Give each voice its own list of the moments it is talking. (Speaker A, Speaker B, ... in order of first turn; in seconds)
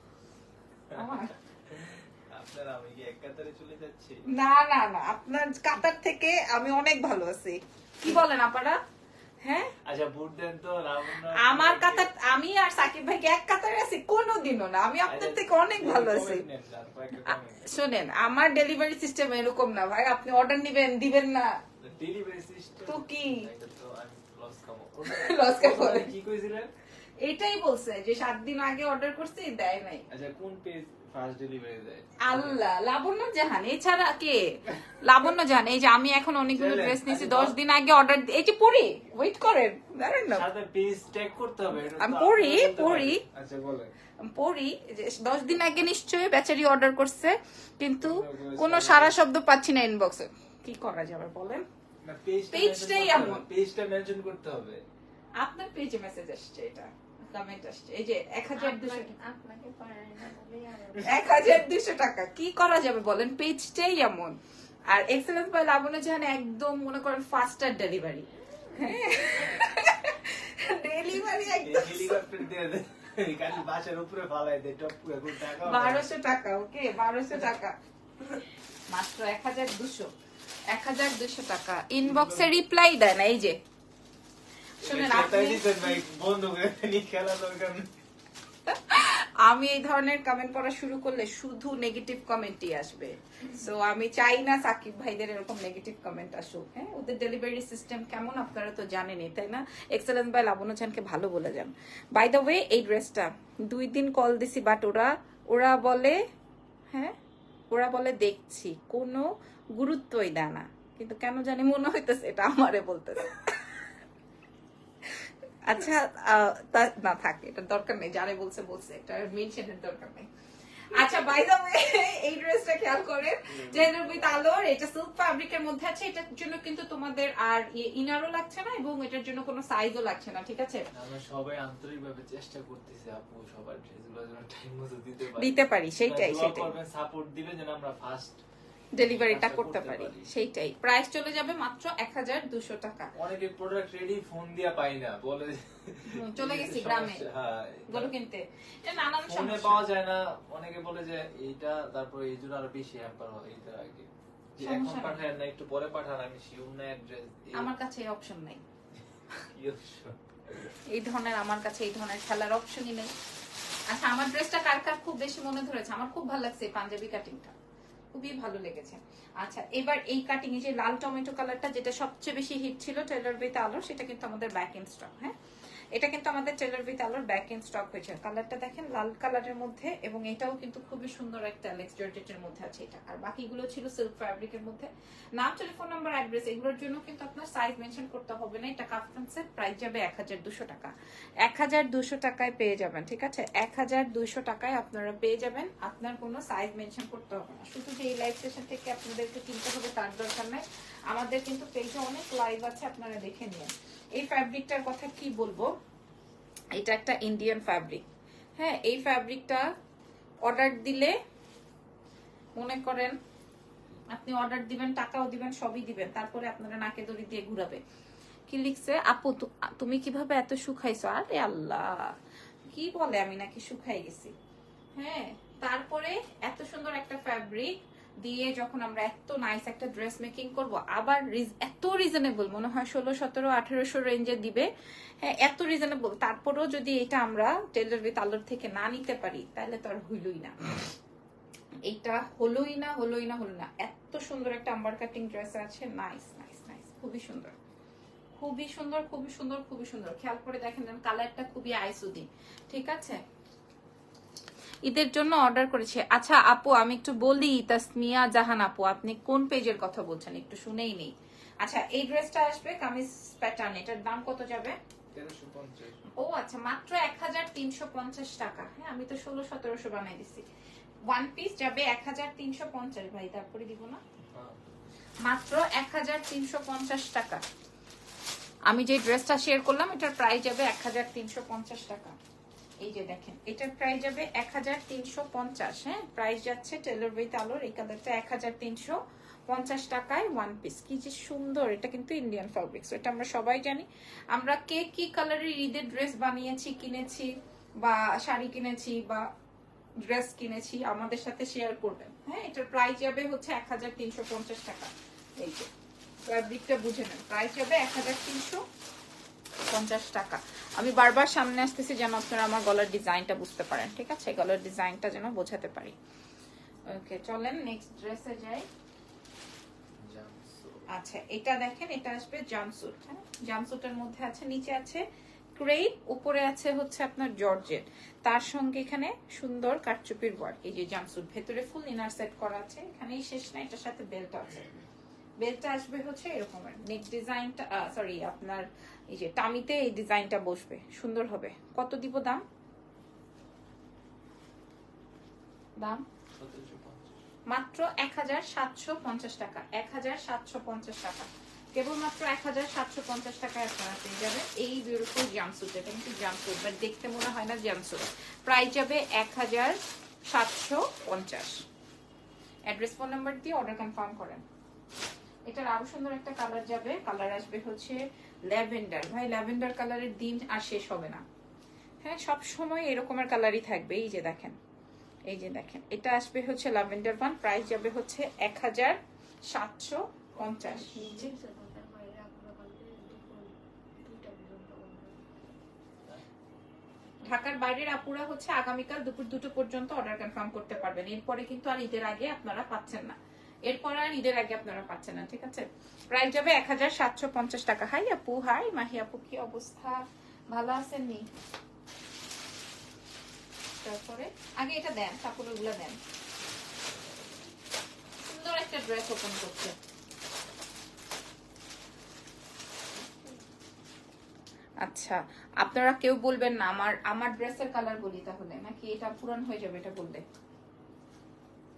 Speaker A: 0.9-4.2, 9.8-12.1, 15.1-17.7, 21.8-26.7, 30.1-32.6, 36.5-37.6, 40.3-43.9, 48.0-49.2, 52.0-54.8, 71.5-76.1, 82.0-82.5, 84.8-87.9, 123.4-124.5, 130.9-138.4, 139.0-140.3, 143.2-148.1, 149.2-157.7, 159.5-160.7, 265.1-266.1, 320.0-320.9, 346.4-347.2
Speaker B: 0.9-1.3, 4.3-8.8, 9.4-9.7, 11.3-16.5, 17.2-21.6, 22.9-23.5, 25.1-26.1, 27.2-30.1, 32.2-40.5, 41.9-43.2, 44.2-51.6, 52.5-53.5, 55.4-59.1, 61.0-64.4, 64.9-72.2, 75.5-77.8, 78.9-80.1, 80.7-83.6, 84.8-86.0, 88.7-106.2, 107.7-113.8, 115.6-120.3, 120.9-130.8, 135.4-136.7, 138.9-143.1, 146.1-147.3, 147.9-149.9, 154.6-155.2, 157.6-158.6, 160.9-163.1, 163.9-167.5, 168.1-175.3, 175.9-205.7, 206.8-208.1, 208.6-209.7, 210.4-211.2, 212.6-213.2, 214.1-217.8, 218.5-222.1, 222.7-224.3, 225.0-234.7, 235.2-240.9, 241.9-247.5, 248.4-253.2, 254.9-264.8, 266.1-270.4, 271.1-274.0, 275.2-277.4, 278.7-282.2, 282.8-299.3, 300.1-305.7, 306.2-308.6, 309.7-315.9, 316.9-318.7, 320.9-325.0, 325.6-334.8, 335.4-342.4, 345.8-346.0, 347.5-359.8, 360.3-361.6, 362.7-364.4, 365.5-371.2, 372.0-374.6, 375.3-379.0, 379.5-381.3, 387.2-401.3, 403.8-406.0, 408.2-409.8, 414.8-420.2
Speaker C: 58.6-61.6, 68.7-69.2, 380.6-385.4, 413.0-413.4